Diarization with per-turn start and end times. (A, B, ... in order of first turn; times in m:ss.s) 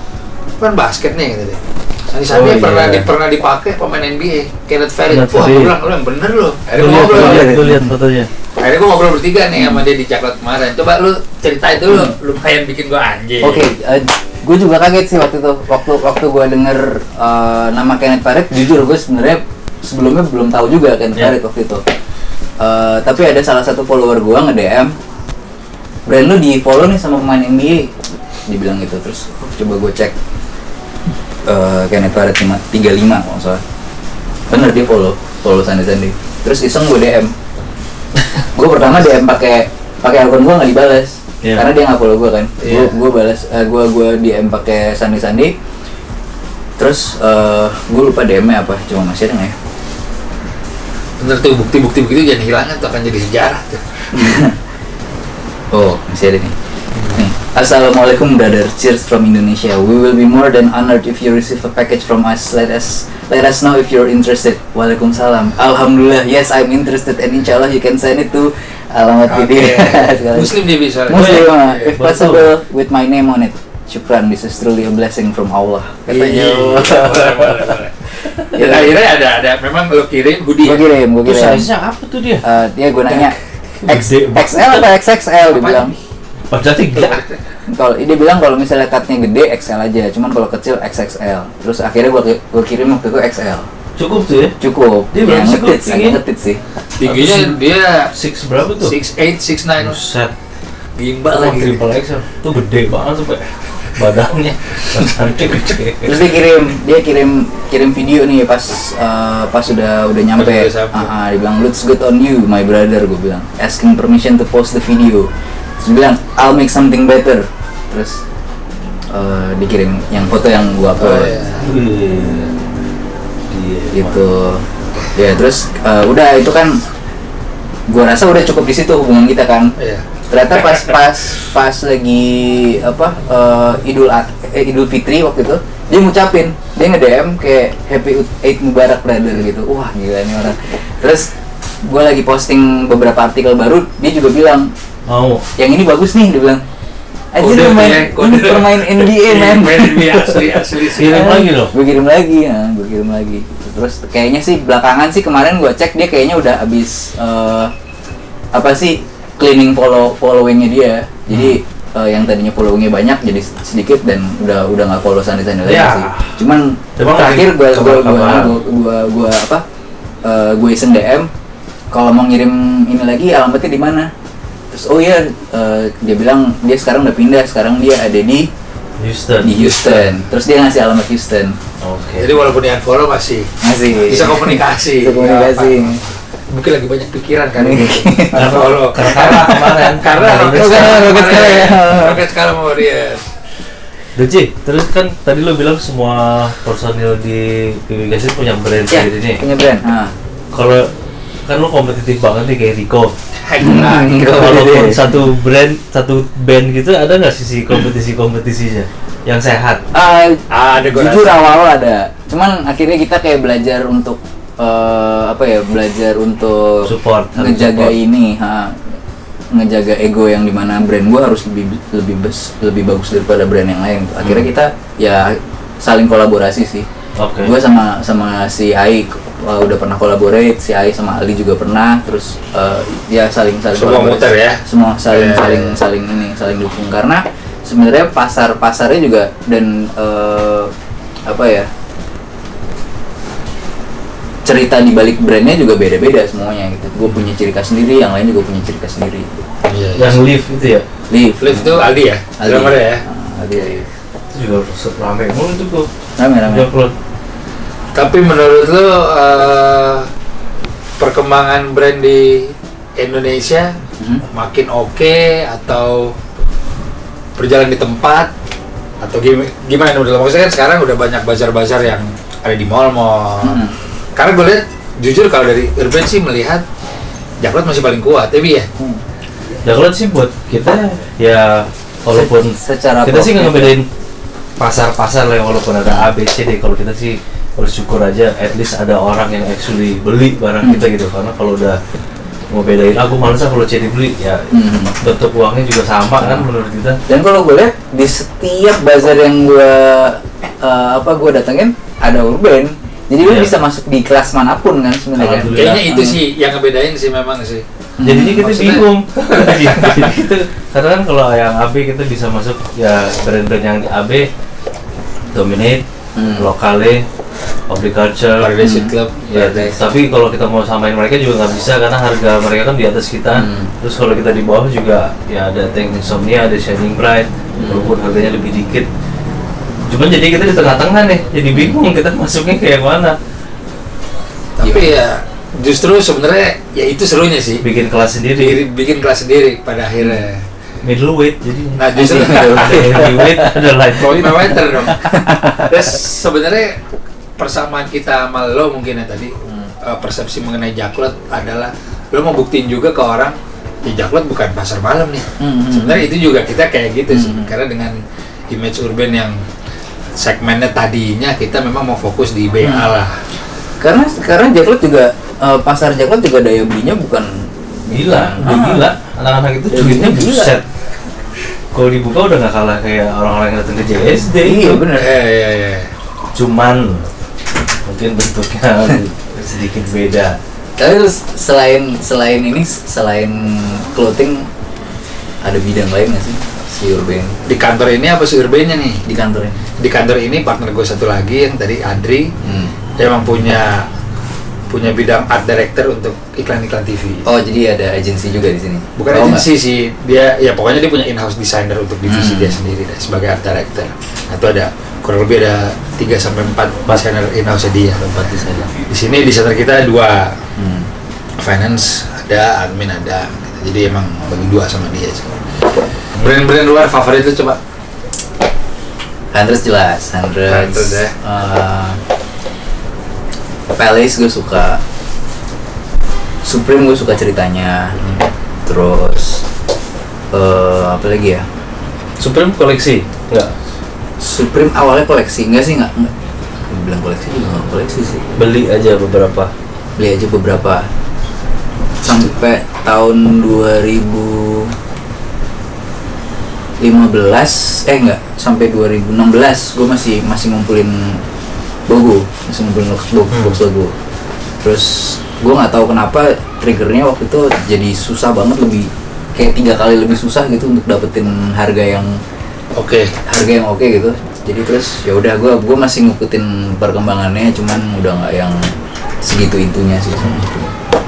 0:00.6-0:07.7 A
0:02.3-0:03.1 B
0:05.1-0:05.8 B
0:06.8-0:08.3 B
0:06.8-0:07.9 C
0:08.6-0:13.7 A
0:13.4-0:21.8 C
0:22.6-0:24.9 C
0:26.1-0:28.0 C
0:28.5-0:30.1 C
0:31.5-0:33.6 C
0:34.5-0:37.3 C
0:38.5-0:45.5 C
0:42.6-0:43.0 A
0:46.8-0:49.5 C
0:51.2-0:54.4 A
0:54.1-0:54.6 C
0:55.7-0:56.5 C
0:56.9-0:57.2 A
0:57.1-1:17.6 C
1:09.3-1:12.0 A
1:11.1-1:12.5 B
1:16.1-1:20.9 A
1:18.5-1:18.9 C
1:20.6-1:21.7 C
1:21.2-1:22.4 B
1:22.4-1:23.4 C
1:23.2-1:24.4 A
1:23.9-1:25.9 C
1:23.9-1:24.8 B
1:25.5-1:26.0 A
1:26.5-1:27.2 B
1:26.9-1:27.4 A
1:27.7-1:33.7 C
1:34.0-1:34.6 B
1:34.6-1:36.6 C
1:35.1-1:36.2 B
1:37.0-1:38.1 A
1:37.0-1:37.6 B
1:38.1-1:39.0 B
1:38.8-1:40.0 A
1:39.8-1:40.3 B
1:41.0-1:41.9 A
1:41.3-1:46.2 B
1:46.0-1:55.3 C
1:50.4-1:51.1 A
1:55.8-1:58.2 C
1:59.1-2:01.3 C
2:01.0-2:01.7 A
2:01.6-2:02.5 B
2:03.5-2:04.2 B
2:03.9-2:06.8 C
2:07.9-2:09.7 C
2:09.8-2:10.1 A
2:10.3-2:21.3 C
2:21.8-2:24.7 C
2:25.1-2:25.4 B
2:25.6-2:26.6 C
2:27.3-2:37.7 C
2:27.4-2:31.4 A
2:30.9-2:31.7 B
2:38.5-2:49.6 C
2:41.3-2:41.6 B
2:45.6-2:46.4 B
2:47.0-2:48.6 B
2:50.2-2:51.3 C
2:51.9-2:54.1 C
2:54.7-2:58.5 C
2:59.0-2:59.8 B
2:59.4-3:01.6 C
2:59.8-3:00.1 A
3:01.8-3:02.3 B
3:02.2-3:03.5 A
3:03.6-3:06.0 C
3:04.0-3:13.3 A
3:07.6-3:09.9 C
3:08.3-3:11.3 B
3:10.5-3:12.2 C
3:14.2-3:19.4 B
3:18.9-3:20.1 C
3:20.5-3:20.9 B
3:21.5-3:23.1 B
3:23.4-3:24.6 A
3:23.6-3:25.0 C
3:24.4-3:29.8 B
3:29.9-3:38.9 C
3:30.5-3:31.6 A
3:36.8-3:37.9 B
3:39.5-3:46.9 C
3:47.2-3:47.5 B
3:47.4-4:00.7 C
3:53.7-3:55.8 A
4:01.3-4:01.7 C
4:04.4-4:09.4 C
4:09.6-4:10.2 A
4:10.0-4:10.8 B
4:11.1-4:13.9 C
4:11.4-4:13.0 A
4:14.3-4:15.9 B
4:16.2-4:16.7 C
4:16.4-4:16.9 B
4:17.9-4:20.1 A
4:21.0-4:23.8 A
4:24.0-4:24.2 C
4:24.3-4:26.2 A
4:27.4-4:28.3 A
4:29.0-4:33.6 A
4:33.4-4:33.8 C
4:34.1-4:36.6 A
4:37.4-4:38.7 A
4:39.6-4:43.9 B
4:42.1-4:43.8 C
4:44.6-4:51.8 B
4:52.5-4:57.0 B
4:54.5-4:55.0 C
4:56.2-4:56.5 C
4:57.1-5:06.2 C
5:03.2-5:03.5 B
5:05.2-5:05.8 B
5:05.5-5:07.6 A
5:08.0-5:08.5 C
5:08.0-5:14.3 B
5:08.4-5:10.1 A
5:15.3-5:15.8 B
5:16.2-5:16.5 C
5:16.3-5:17.0 B
5:17.7-5:18.6 B
5:18.4-5:19.4 A
5:18.6-5:19.8 C
5:19.3-5:28.9 B
5:23.3-5:23.7 C
5:27.6-5:27.9 C
5:29.8-5:33.2 B
5:34.6-5:37.6 A
5:34.6-5:35.0 C
5:37.6-5:38.6 B
5:38.4-5:40.5 A
5:40.8-5:44.9 B
5:41.8-5:42.8 A
5:41.9-5:43.6 C
5:44.0-5:46.8 A
5:45.0-5:45.8 C
5:47.4-5:58.0 A
5:49.4-5:49.7 C
5:55.4-5:56.1 C
5:57.1-5:57.5 C
5:58.5-5:59.4 A
6:00.2-6:03.2 A
6:02.6-6:02.9 C
6:03.8-6:08.9 C
6:07.9-6:10.6 B
6:09.7-6:10.5 C
6:11.7-6:14.8 B
6:14.4-6:15.1 C
6:14.9-6:15.9 A
6:16.3-6:17.1 B
6:17.8-6:20.4 B
6:20.8-6:24.5 C
6:25.4-6:27.4 C
6:27.4-6:29.0 A
6:29.0-6:29.7 C
6:29.8-6:32.3 A
6:32.4-6:32.8 C
6:33.0-6:33.9 A
6:34.7-6:37.2 A
6:37.2-6:39.5 C
6:39.0-6:48.1 A
6:42.1-6:42.6 C
6:48.1-6:48.7 B
6:48.2-6:48.6 C
6:48.9-6:50.4 A
6:50.6-6:50.9 C
6:51.4-6:55.4 A
6:56.0-6:57.6 A
6:59.3-7:02.0 C
7:00.5-7:01.1 A
7:03.7-7:04.8 C
7:06.4-7:08.0 C
7:08.6-7:09.4 C
7:10.3-7:11.4 C
7:12.2-7:13.5 B
7:14.2-7:16.1 C
7:16.6-7:18.3 C
7:18.4-7:19.5 B
7:20.0-7:20.9 C
7:22.0-7:24.7 C
7:26.8-7:31.2 C
7:31.9-7:34.0 C
7:33.3-7:33.6 B
7:34.6-7:42.2 C
7:42.8-7:43.1 A
7:43.2-7:50.7 C